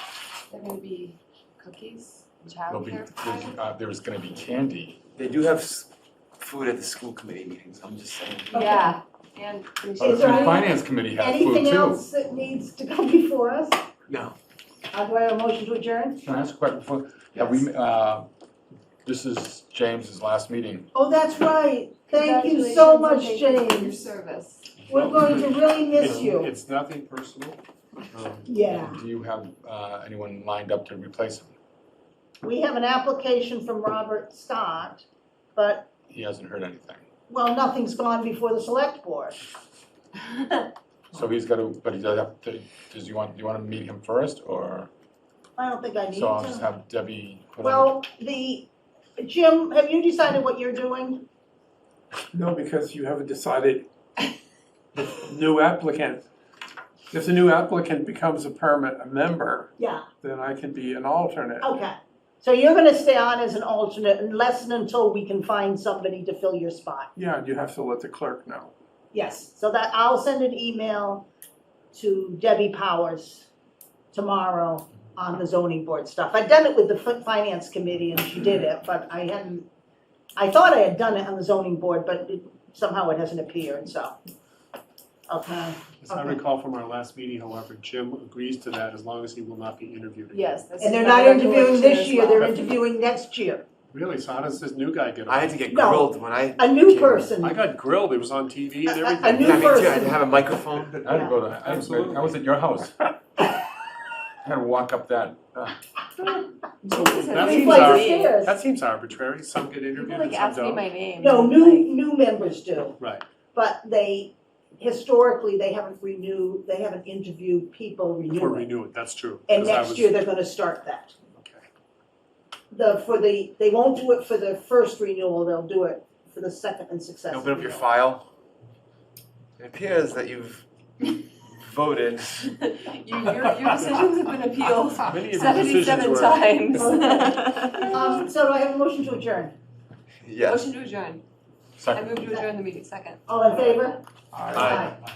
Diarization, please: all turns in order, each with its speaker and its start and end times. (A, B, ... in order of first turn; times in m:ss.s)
0:00.5-0:03.6 A
0:02.7-0:05.0 B
0:05.2-0:08.6 C
0:08.5-0:09.0 D
0:08.5-0:10.6 A
0:10.0-0:13.8 D
0:10.0-0:12.0 B
0:14.1-0:14.4 C
0:14.9-0:16.2 D
0:16.2-0:18.3 B
0:19.0-0:20.9 B
0:20.9-0:24.0 D
0:22.1-0:24.7 A
0:24.9-0:26.5 D
0:24.9-0:27.6 E
0:28.1-0:28.5 E
0:28.4-0:29.0 D
0:28.7-0:31.5 B
0:32.4-0:35.0 D
0:35.6-0:35.9 D
0:36.1-0:37.0 B
0:37.3-0:39.4 D
0:41.1-0:44.9 B
0:45.6-0:46.7 D
0:46.1-0:48.0 B
0:47.6-0:51.2 D
0:52.3-0:53.9 F
0:55.0-0:56.2 F
0:57.1-1:01.7 F
0:59.8-1:00.0 D
1:01.6-1:07.1 D
1:07.2-1:08.7 F
1:09.1-1:11.3 D
1:11.9-1:13.5 D
1:14.1-1:19.6 D
1:20.4-1:24.2 D
1:25.3-1:26.4 D
1:26.0-1:30.4 E
1:30.3-1:32.5 A
1:30.8-1:33.6 D
1:32.4-1:32.7 E
1:33.9-1:35.7 E
1:35.3-1:37.3 C
1:35.7-1:37.6 D
1:37.4-1:40.0 E
1:39.1-1:40.3 D
1:39.2-1:41.2 C
1:41.0-1:42.9 B
1:41.1-1:41.4 D
1:41.8-1:42.3 E
1:44.4-1:45.8 B
1:46.8-1:48.3 A
1:46.9-1:50.9 E
1:47.4-1:48.6 D
1:49.9-1:51.9 A
1:51.2-1:53.0 D
1:53.5-1:58.7 D
1:58.3-2:00.2 E
1:59.5-2:01.2 D
2:01.3-2:01.6 E
2:02.7-2:07.9 D
2:07.3-2:08.2 C
2:09.6-2:10.6 C
2:11.5-2:12.5 C
2:12.6-2:18.1 A
2:15.0-2:16.9 E
2:16.7-2:19.5 D
2:20.2-2:20.7 C
2:20.4-2:21.2 A
2:21.8-2:22.1 B
2:21.8-2:23.2 A
2:23.3-2:24.0 D
2:24.3-2:24.8 F
2:24.5-2:25.0 D
2:24.5-2:24.8 C